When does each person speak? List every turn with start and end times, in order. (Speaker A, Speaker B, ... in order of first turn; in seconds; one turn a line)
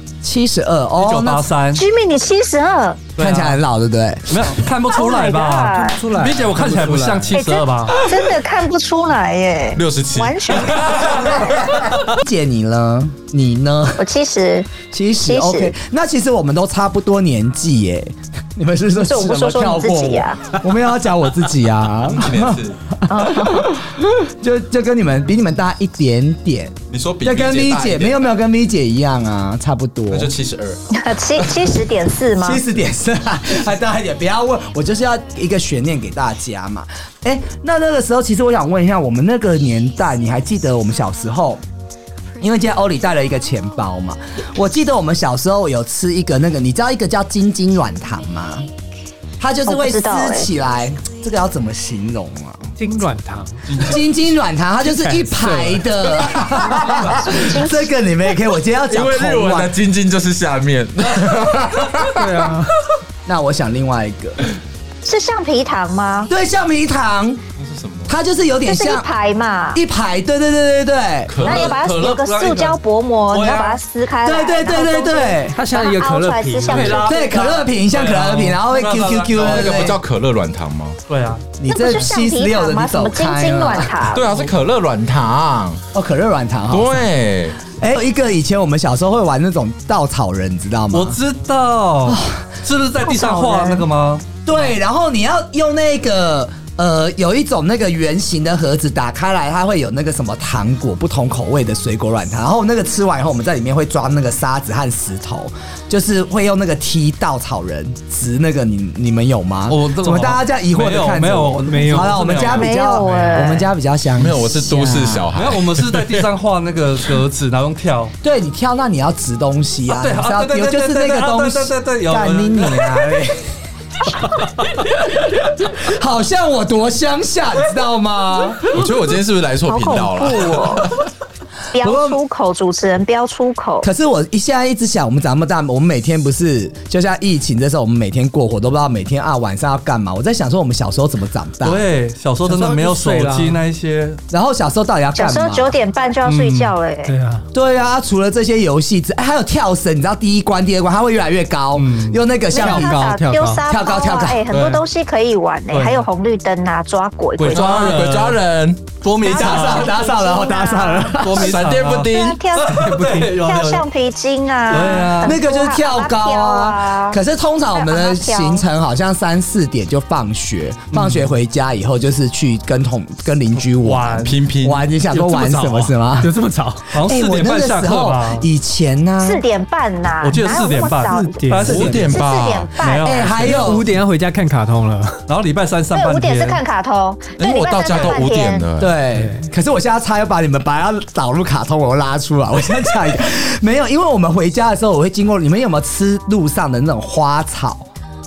Speaker A: 0.2-1.5
Speaker B: 0.9-1.8
Speaker C: 1.7-3.0
Speaker B: 3.1-3.6
Speaker A: 3.2-4.4
Speaker B: 4.3-8.2
Speaker C: 4.9-6.0
Speaker D: 5.7-7.4
Speaker C: 7.3-11.2
Speaker E: 9.7-11.9
Speaker A: 11.4-14.0
Speaker C: 14.0-15.7
Speaker A: 14.9-30.3
Speaker C: 19.0-20.4
Speaker E: 22.0-22.8
Speaker C: 23.1-23.7
Speaker E: 26.9-28.3
Speaker E: 30.1-30.8
Speaker C: 30.9-32.6
Speaker A: 32.4-41.6
Speaker A: 42.4-48.7
Speaker A: 49.4-52.7
Speaker C: 49.7-50.5
Speaker D: 52.8-53.6
Speaker B: 53.7-54.0
Speaker A: 53.8-59.7
Speaker D: 54.8-55.9
Speaker C: 56.5-57.9
Speaker B: 57.0-57.4
Speaker E: 58.9-62.6
Speaker D: 62.1-62.7
Speaker A: 63.2-64.5
Speaker C: 65.0-66.3
Speaker A: 66.3-67.4
Speaker E: 67.5-68.2
Speaker A: 68.1-69.1
Speaker C: 68.7-69.8
Speaker A: 69.7-71.4
Speaker E: 71.3-72.1
Speaker C: 71.4-77.7
Speaker B: 71.4-72.8
Speaker B: 73.3-73.8
Speaker A: 74.2-75.6
Speaker D: 75.5-77.0
Speaker B: 76.7-77.3
Speaker A: 77.0-80.0
Speaker B: 77.8-79.9
Speaker E: 79.3-81.0
Speaker B: 81.1-81.4
Speaker A: 81.6-83.9
Speaker C: 81.7-84.2
Speaker E: 84.0-85.8
Speaker B: 84.3-84.5
Speaker A: 85.9-87.0
Speaker E: 86.7-87.6
Speaker A: 87.7-91.2
Speaker B: 90.9-94.2
Speaker A: 92.1-92.4
Speaker C: 93.0-93.8
Speaker A: 94.4-115.3
Speaker B: 109.7-112.7
Speaker D: 111.7-112.5
Speaker C: 112.4-113.7
Speaker D: 113.0-113.4
Speaker E: 114.1-116.3
Speaker B: 115.3-118.1
Speaker A: 118.2-123.5
Speaker B: 119.8-122.9
Speaker A: 125.6-128.6
Speaker E: 128.7-130.9
Speaker C: 129.7-130.9
Speaker C: 131.7-133.9
Speaker A: 131.7-132.2
Speaker A: 133.8-141.8
Speaker B: 141.6-144.2
Speaker D: 142.4-143.6
Speaker A: 144.3-145.8
Speaker C: 145.2-147.1
Speaker B: 146.2-146.7
Speaker D: 147.1-147.4
Speaker A: 147.5-153.0
Speaker B: 151.7-152.2
Speaker D: 152.5-153.6
Speaker C: 152.5-157.8
Speaker A: 153.7-154.4
Speaker B: 154.5-154.8
Speaker B: 155.7-156.1
Speaker B: 157.4-158.4
Speaker E: 157.4-158.9
Speaker A: 157.7-158.0
Speaker B: 159.0-159.9
Speaker C: 159.2-167.2
Speaker A: 159.2-161.4
Speaker B: 161.2-163.8
Speaker E: 161.3-162.4
Speaker D: 162.8-163.4
Speaker B: 164.7-165.4
Speaker A: 165.2-176.3
Speaker C: 167.7-168.6
Speaker B: 170.9-171.3
Speaker B: 173.7-174.3
Speaker E: 174.2-174.9
Speaker D: 175.1-176.9
Speaker B: 176.9-178.5
Speaker A: 177.0-179.4
Speaker C: 179.2-183.3
Speaker B: 180.2-182.2
Speaker D: 181.1-181.9
Speaker E: 181.6-182.7
Speaker A: 181.7-182.0
Speaker B: 182.8-183.8
Speaker A: 183.0-183.9
Speaker D: 183.4-185.2
Speaker B: 185.3-186.6
Speaker C: 185.9-188.7
Speaker E: 187.4-188.9
Speaker A: 188.8-197.9
Speaker D: 189.1-189.5